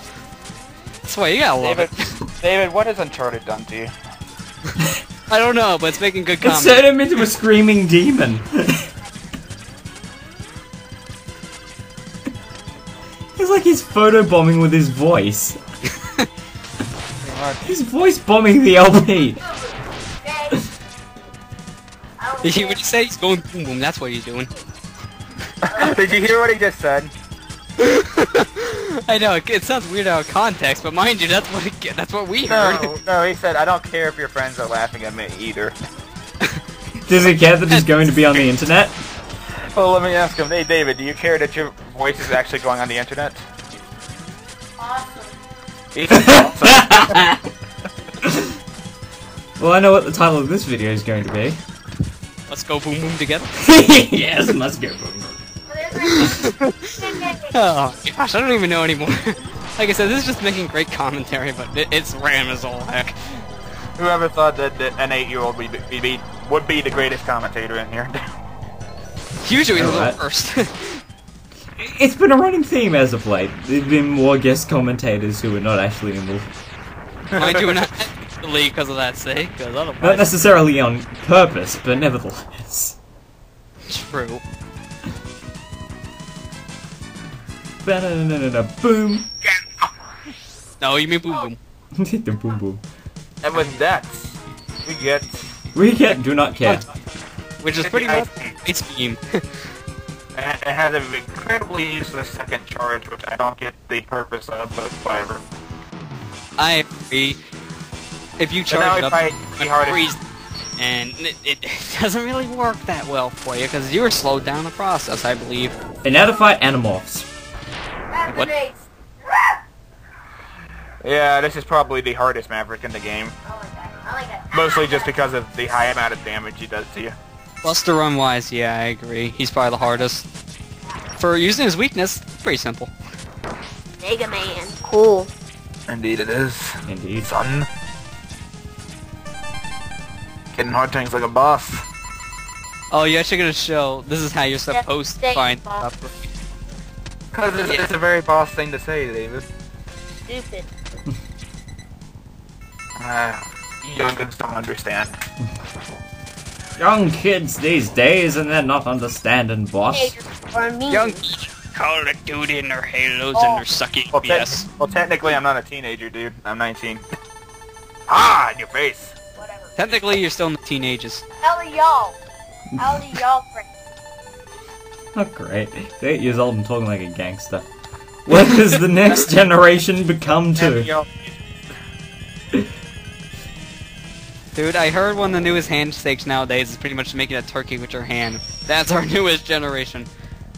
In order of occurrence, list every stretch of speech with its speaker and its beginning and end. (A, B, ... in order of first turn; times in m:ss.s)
0:01.1-0:02.2 A
0:01.6-0:03.9 B
0:05.3-0:07.2 A
0:06.4-0:08.8 C
0:13.4-0:15.6 C
0:17.2-0:17.7 B
0:17.6-0:19.4 C
0:19.4-0:20.7 D
0:22.2-0:22.8 D
0:22.4-0:24.5 A
0:25.6-0:27.1 B
0:25.7-0:26.0 D
0:27.8-0:33.0 A
0:32.5-0:35.8 B
0:37.1-0:39.0 C
0:39.7-0:43.4 B
0:44.8-0:45.3 D
0:45.9-0:47.2 B
0:46.2-0:47.4 C
0:49.6-0:51.6 C
0:52.5-0:53.6 A
0:53.6-0:55.4 C
0:55.7-0:57.5 D
0:56.2-1:03.2 A
1:04.0-1:08.2 B
1:09.4-1:11.0 A
1:09.8-1:10.2 C
1:11.8-1:16.5 C
1:17.3-1:17.7 B
1:17.4-1:20.4 A
1:20.0-1:23.0 C
1:23.9-1:24.4 A
1:27.8-1:29.3 C
1:30.8-1:31.6 A
1:32.0-1:32.8 C
1:33.4-1:35.5 B
1:35.8-1:36.8 C
1:37.6-1:39.4 A
1:37.8-1:38.5 B
1:40.3-1:45.4 B
1:46.6-1:47.4 A
1:48.4-1:50.2 A
1:48.7-1:50.0 B
1:50.8-1:55.8 A
1:56.0-1:57.3 C
1:58.1-1:59.6 D
2:01.0-2:03.4 B
2:03.5-2:05.1 D
2:04.5-2:07.2 B
2:07.6-2:10.2 A
2:11.2-2:12.9 A
2:14.0-2:15.3 D
2:15.9-2:17.7 B
2:16.9-2:17.3 C
2:20.5-2:21.8 B
2:22.9-2:26.3 A
2:24.7-2:25.9 D
2:27.3-2:29.5 B
2:30.2-2:30.7 D
2:33.0-2:35.2 B
2:36.8-2:40.2 C
2:39.9-2:41.2 D
2:40.9-2:44.6 A
2:43.4-2:43.6 D
2:44.1-2:47.0 B
2:48.1-2:49.1 B
2:49.4-2:49.8 D
2:49.8-2:51.2 A
2:51.4-2:52.2 D
2:52.7-2:53.0 C
2:52.8-2:53.6 D
2:55.2-2:57.7 C
2:58.3-3:00.9 C
3:00.5-3:01.7 B
3:04.6-3:10.1 A